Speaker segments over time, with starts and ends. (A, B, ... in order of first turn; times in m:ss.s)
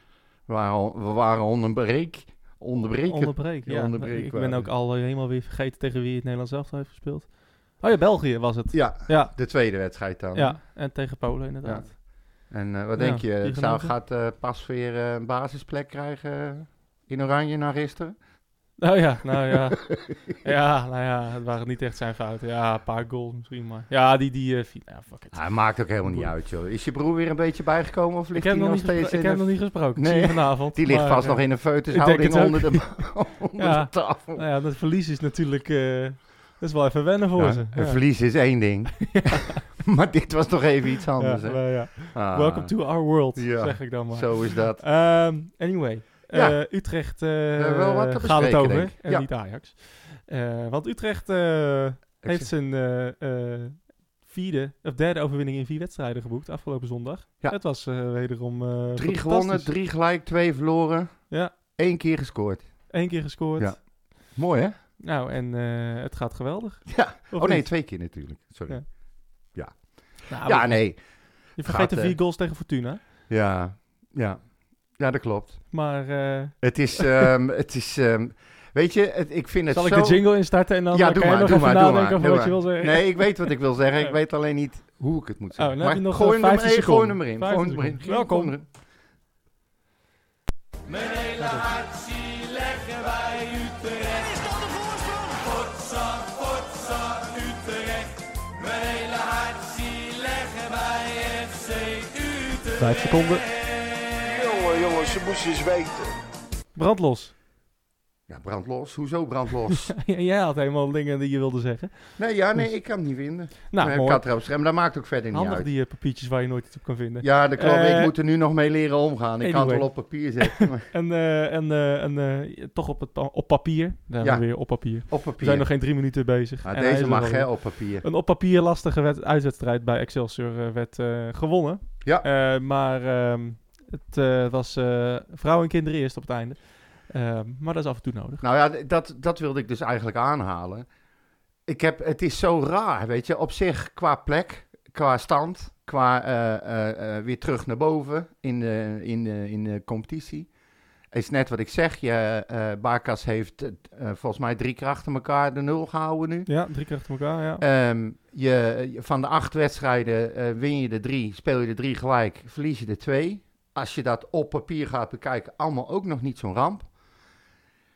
0:00.5-0:04.7 A
0:03.0-0:09.8 B
0:08.7-0:10.8 A
0:10.3-0:12.2 B
0:11.6-0:18.2 A
0:13.0-0:13.9 B
0:18.8-0:26.3 B
0:25.3-0:34.4 A
0:28.3-0:38.4 B
0:37.3-0:44.9 A
0:39.1-0:39.6 B
0:41.2-0:59.7 B
0:46.3-0:46.7 A
0:47.6-0:49.3 A
0:52.2-0:52.5 A
0:59.0-1:04.7 A
1:02.9-1:03.8 B
1:05.0-1:08.1 B
1:06.9-1:12.2 A
1:10.3-1:13.0 B
1:13.3-1:15.8 A
1:15.7-1:17.3 B
1:16.6-1:28.7 A
1:19.7-1:24.1 B
1:25.6-1:28.5 B
1:31.4-1:31.7 B
1:39.0-1:39.5 C
1:42.8-1:43.4 B
1:44.1-1:46.2 C
1:46.7-1:47.3 B
1:48.3-1:49.9 A
1:49.9-1:52.8 B
1:52.2-1:55.7 A
1:53.7-1:54.4 B
1:55.3-1:58.1 B
1:57.2-2:00.9 A
1:59.4-2:18.4 B
2:04.2-2:05.9 A
2:06.6-2:08.0 A
2:18.4-2:20.9 A
2:21.7-2:30.5 A
2:31.1-2:36.5 A
2:36.5-2:37.6 B
2:37.6-2:46.9 A